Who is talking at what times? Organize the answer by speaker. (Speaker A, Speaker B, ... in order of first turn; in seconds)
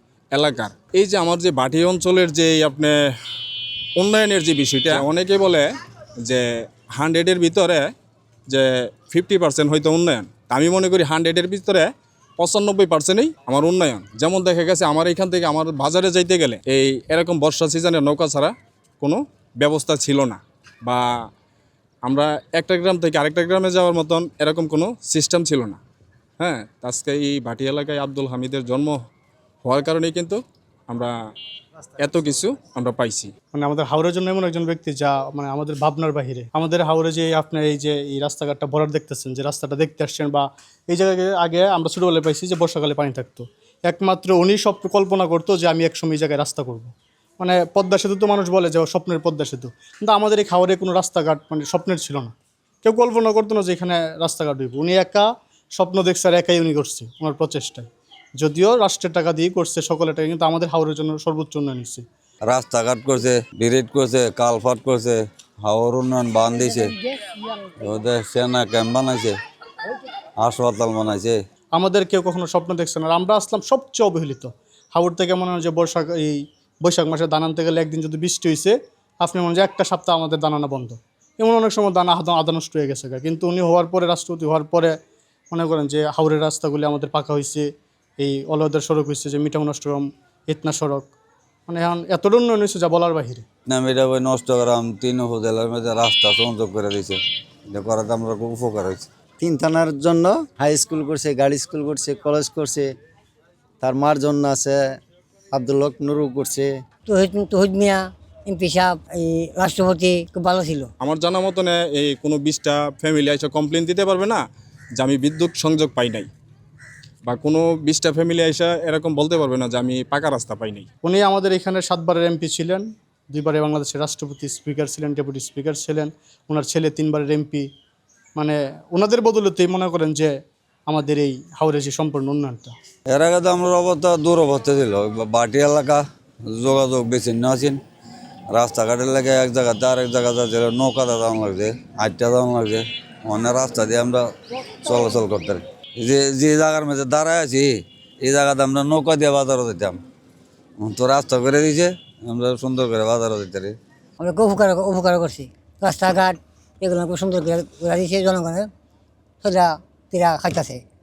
Speaker A: 0.3-2.9, 4.0-5.7, 6.2-7.9, 8.5-21.1, 22.0-25.8, 26.4-29.0, 29.6-31.1, 32.0-33.3, 111.0-114.4, 115.0-116.3, 117.3-120.9
Speaker B: 33.5-52.3, 52.8-57.9, 58.4-62.0, 71.7-84.9, 85.5-91.1, 91.7-93.4, 121.0-127.7, 128.3-130.3, 130.9-132.7
Speaker C: 62.5-67.0, 67.8-69.3, 70.4-71.3, 93.7-97.2, 97.7-99.1, 133.1-137.8, 138.5-150.0, 150.8-153.7
Speaker D: 99.4-102.9, 103.8-104.9, 105.5-106.7
Speaker E: 107.0-110.9, 154.2-158.7, 159.4-160.8